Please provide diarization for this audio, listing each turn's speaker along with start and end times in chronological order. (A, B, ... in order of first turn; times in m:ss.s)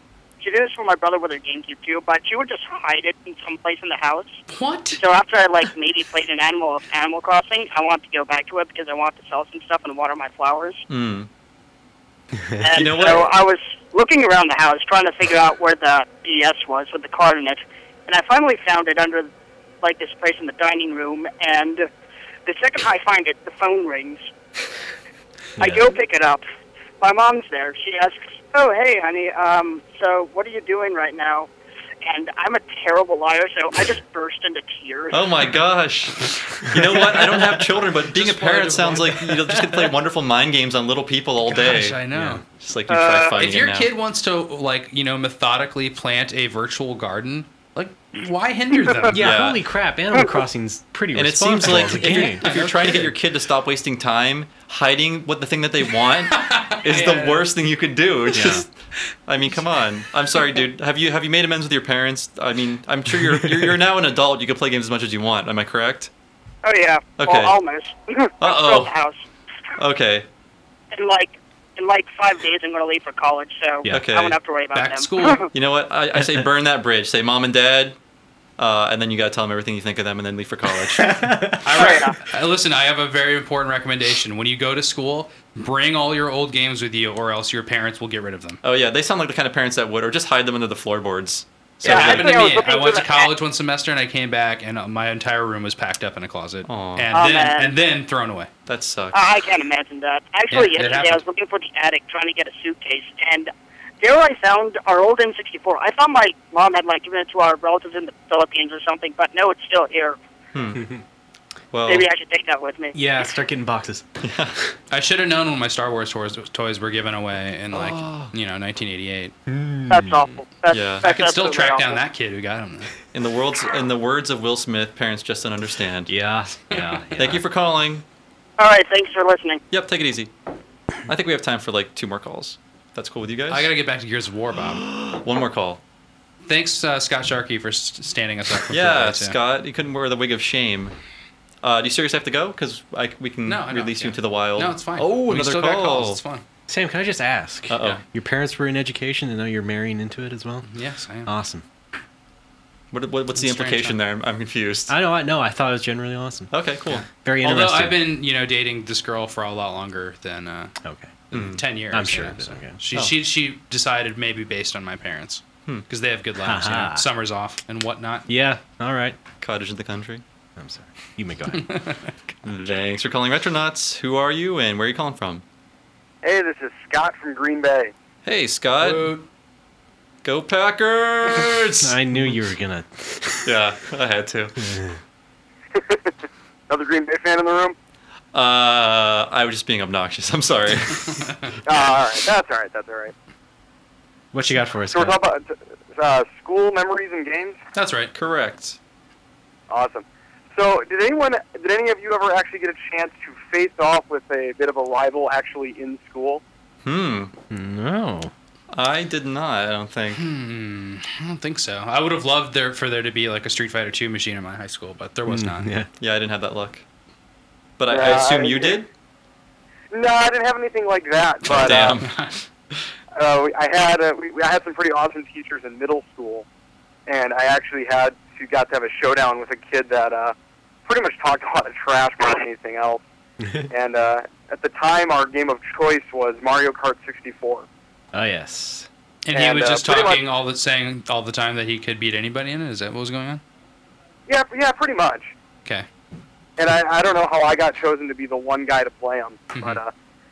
0:00.4-0:04.4 A
0:04.5-0:05.0 B
0:05.0-0:10.8 A
0:10.9-0:11.3 C
0:12.6-0:19.3 A
0:12.7-0:13.3 C
0:19.8-0:21.9 A
0:22.4-0:24.3 A
0:25.6-0:26.4 A
0:25.6-0:25.9 D
0:27.0-0:31.5 A
0:32.0-0:35.2 A
0:35.1-0:42.0 C
0:38.0-0:39.4 B
0:41.6-0:42.4 B
0:42.1-0:42.4 D
0:42.6-0:43.9 C
0:43.4-0:49.2 B
0:49.1-0:52.5 D
0:49.2-0:49.6 C
0:51.2-0:58.7 C
0:51.8-0:53.1 B
0:56.3-0:57.5 B
0:58.4-0:58.6 D
0:59.3-1:06.1 C
1:03.3-1:03.7 D
1:06.6-1:09.2 A
1:07.2-1:07.6 C
1:08.4-1:08.9 C
1:09.8-1:10.3 C
1:10.9-1:15.5 A
1:13.9-1:14.4 C
1:14.7-1:15.5 B
1:15.5-1:18.0 C
1:16.2-1:16.5 D
1:18.6-1:21.3 C
1:20.9-1:21.9 D
1:21.6-1:28.6 B
1:21.8-1:22.2 A
1:28.6-1:32.4 C
1:31.8-1:33.3 A
1:31.8-1:38.5 B
1:36.6-1:37.1 C
1:37.1-1:37.7 A
1:38.7-1:39.2 C
1:39.1-1:50.2 A
1:40.5-1:41.2 B
1:50.5-1:50.9 C
1:50.8-1:51.0 D
1:51.7-1:52.1 C
1:51.9-1:53.0 A
1:52.9-1:54.7 D
1:54.2-1:54.6 C
1:54.9-1:59.4 B
1:57.7-1:58.3 C
1:59.5-2:00.3 D
1:59.9-2:02.0 A
2:00.7-2:01.0 C
2:01.0-2:03.0 B
2:03.1-2:06.1 C
2:06.1-2:07.4 D
2:07.2-2:08.0 C
2:08.6-2:09.6 A
2:09.7-2:10.3 C
2:11.1-2:13.7 C
2:13.5-2:14.9 B
2:14.8-2:15.8 C
2:16.5-2:19.4 B
2:18.7-2:21.0 C
2:21.6-2:26.2 C
2:23.5-2:26.4 B
2:26.7-2:30.7 D
2:27.7-2:28.0 C
2:30.6-2:31.3 B
2:31.2-2:31.6 D
2:32.9-2:34.9 C
2:33.4-2:34.0 B
2:34.9-2:36.5 D
2:36.5-2:37.0 C
2:37.1-2:38.0 D
2:37.4-2:40.8 B
2:40.8-2:41.3 D
2:41.3-2:41.6 C
2:41.3-2:48.3 B
2:41.9-2:42.8 D
2:46.4-2:47.1 D
2:48.3-2:49.2 D
2:49.4-2:50.2 C
2:50.6-2:51.7 D
2:51.6-2:52.1 B
2:52.4-2:55.4 C
2:56.2-2:57.9 E
2:58.2-2:59.2 C
2:58.8-2:59.2 B
3:00.2-3:02.0 C
3:01.8-3:03.5 D
3:03.4-3:04.6 C
3:04.6-3:05.0 D
3:05.8-3:06.1 E
3:06.7-3:07.8 E
3:08.3-3:11.2 C
3:11.7-3:13.1 E
3:14.3-3:15.2 D
3:14.9-3:17.6 E
3:17.8-3:18.1 B
3:18.2-3:18.8 C
3:19.7-3:26.4 E
3:26.8-3:27.3 C
3:27.5-3:28.3 D
3:28.7-3:30.2 C
3:30.2-3:35.7 B
3:35.3-3:35.9 D
3:36.0-3:36.8 C
3:37.8-3:38.9 C
3:37.9-3:38.8 E
3:39.9-3:41.9 E
3:41.4-3:42.2 C
3:41.5-3:42.4 B
3:43.2-3:46.4 E
3:47.1-3:50.4 E
3:50.9-3:53.0 E
3:53.4-3:53.7 D
3:53.7-3:57.7 E
3:58.1-3:58.9 D
3:59.3-4:03.4 B
3:59.3-4:00.2 E
4:04.3-4:05.3 E
4:06.6-4:09.9 E
4:09.6-4:09.8 B